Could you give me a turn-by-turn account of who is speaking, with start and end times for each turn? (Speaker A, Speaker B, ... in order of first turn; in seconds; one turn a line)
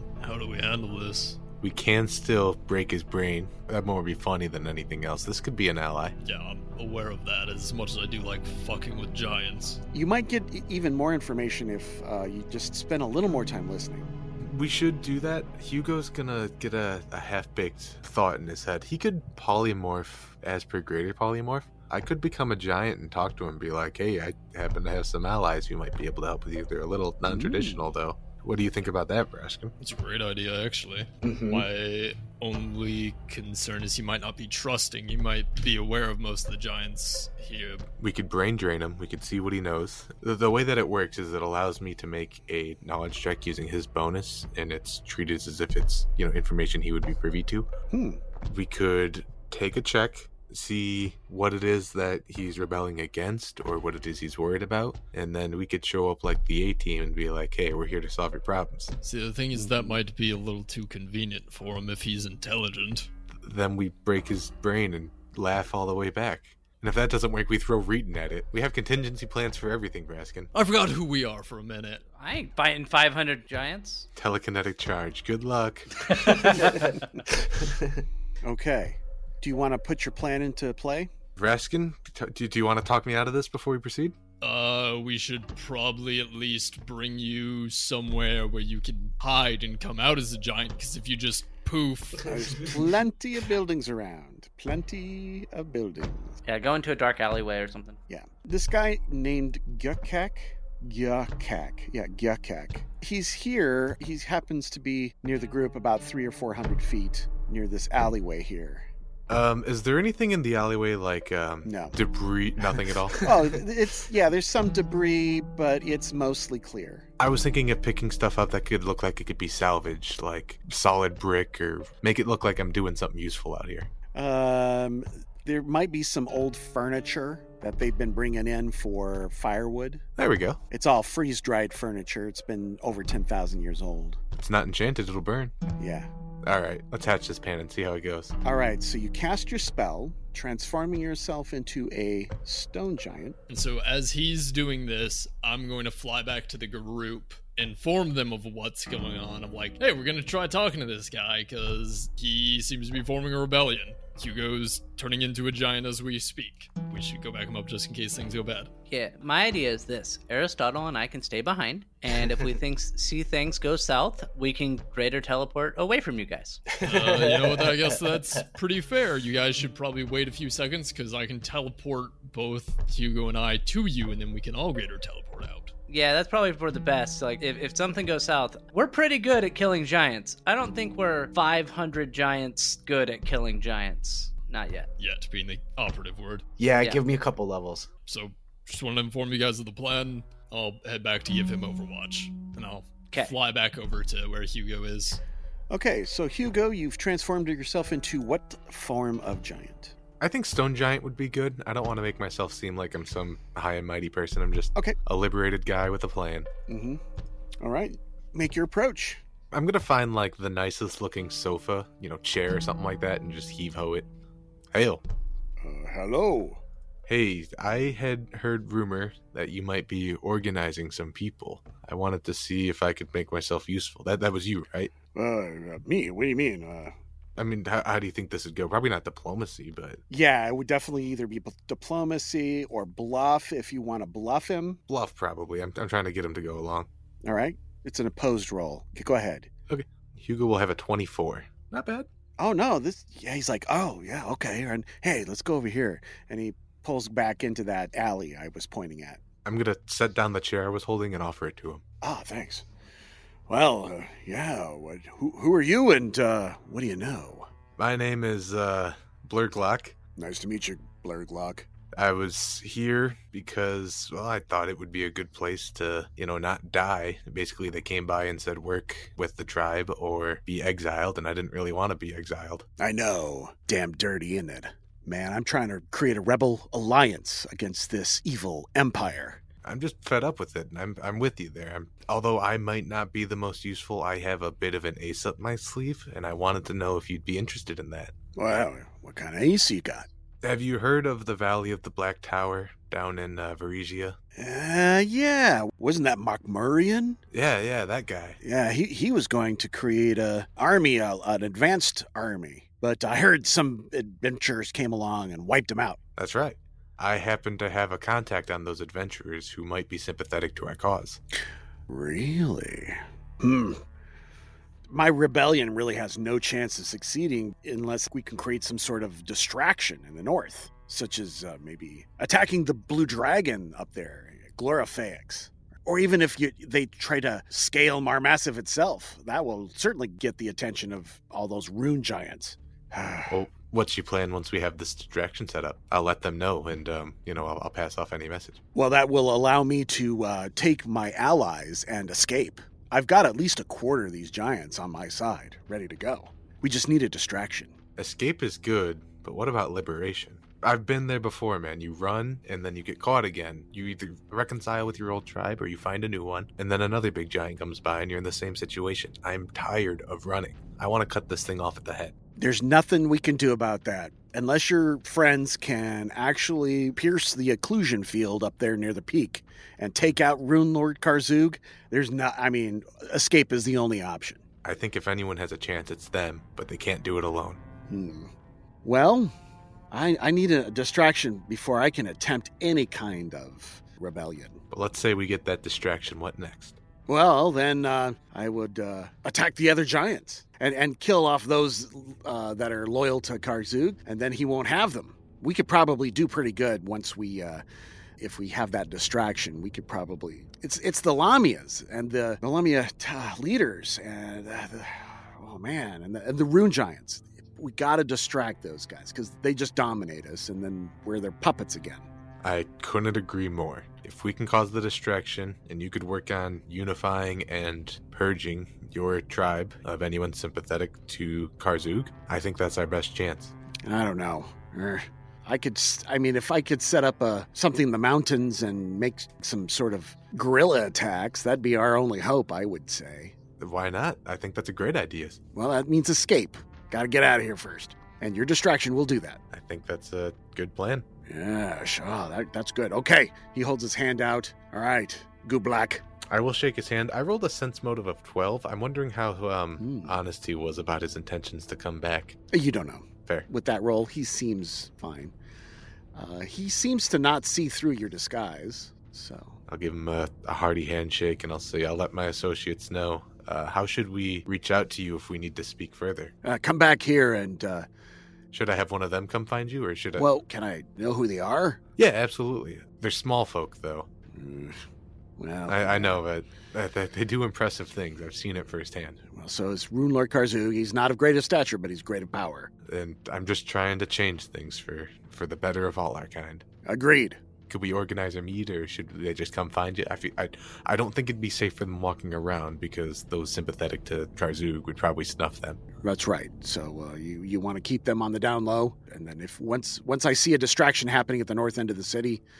Speaker A: 0.2-1.4
Speaker B: 1.6-6.1
Speaker A: 6.2-9.8
Speaker C: 9.9-14.1
Speaker B: 14.4-29.7
Speaker C: 27.3-27.8
Speaker A: 29.8-37.9
Speaker D: 31.2-31.7
Speaker B: 38.0-47.7
Speaker C: 47.9-48.2
Speaker B: 48.4-58.9
Speaker A: 59.0-63.1
Speaker C: 59.5-60.0
Speaker B: 63.4-70.5
Speaker A: 70.5-72.0
Speaker E: 72.2-74.1
Speaker B: 74.2-76.8
Speaker C: 78.4-81.1
Speaker B: 81.4-84.2
Speaker A: 84.4-92.7
Speaker C: 92.2-96.4
Speaker E: 96.5-98.0
Speaker C: 98.1-108.9
Speaker B: 109.3-113.4
Speaker C: 111.7-112.0
Speaker C: 113.2-117.1
Speaker B: 117.2-123.9
Speaker C: 124.1-130.0
Speaker B: 130.2-130.6
Speaker C: 130.7-134.2
Speaker B: 134.4-135.5
Speaker C: 135.8-136.1
Speaker B: 136.4-138.3
Speaker C: 138.4-143.4
Speaker A: 143.5-158.7
Speaker E: 158.9-166.6
Speaker D: 166.7-168.4
Speaker A: 166.8-175.7
Speaker E: 175.9-184.9
Speaker A: 185.0-186.4
Speaker D: 186.6-187.9
Speaker A: 188.1-195.2
Speaker C: 195.7-199.9
Speaker B: 200.2-206.5
Speaker C: 206.7-207.0
Speaker C: 207.6-209.2
Speaker B: 209.5-214.1
Speaker B: 214.7-215.0
Speaker C: 215.6-216.6
Speaker B: 217.1-224.9
Speaker C: 225.1-226.9
Speaker B: 227.3-230.0
Speaker C: 230.1-234.8
Speaker B: 234.9-236.9
Speaker C: 237.2-239.5
Speaker B: 239.7-242.1
Speaker C: 242.4-249.2
Speaker B: 249.4-251.8
Speaker C: 252.0-252.7
Speaker C: 253.5-257.5
Speaker B: 257.8-259.9
Speaker C: 260.2-261.7
Speaker B: 261.9-272.6
Speaker C: 272.8-279.4
Speaker B: 279.6-288.1
Speaker C: 288.4-290.1
Speaker B: 290.4-294.1
Speaker C: 294.4-297.2
Speaker B: 297.3-298.4
Speaker C: 298.4-306.0
Speaker B: 306.1-311.2
Speaker C: 311.9-313.8
Speaker C: 314.9-333.4
Speaker B: 333.3-338.6
Speaker C: 338.7-347.7
Speaker B: 347.9-362.1
Speaker C: 362.4-374.4
Speaker B: 374.6-377.6
Speaker C: 377.9-378.3
Speaker C: 378.8-379.3
Speaker C: 379.9-384.6
Speaker B: 384.7-386.8
Speaker C: 387.1-397.6
Speaker C: 398.2-412.1
Speaker B: 412.4-423.5
Speaker C: 423.8-433.4
Speaker B: 433.6-435.4
Speaker C: 435.5-439.4
Speaker B: 439.5-441.1
Speaker C: 441.3-446.1
Speaker B: 446.2-452.4
Speaker C: 449.8-450.1
Speaker C: 452.5-455.3
Speaker C: 456.1-459.6
Speaker B: 459.7-466.3
Speaker C: 466.4-467.9
Speaker B: 468.5-470.3
Speaker C: 470.1-471.8
Speaker B: 472.0-474.1
Speaker C: 474.3-474.8
Speaker C: 475.4-476.2
Speaker B: 475.7-479.2
Speaker C: 479.3-482.7
Speaker B: 482.8-486.6
Speaker C: 486.8-487.4
Speaker B: 487.7-495.8
Speaker C: 496.0-502.4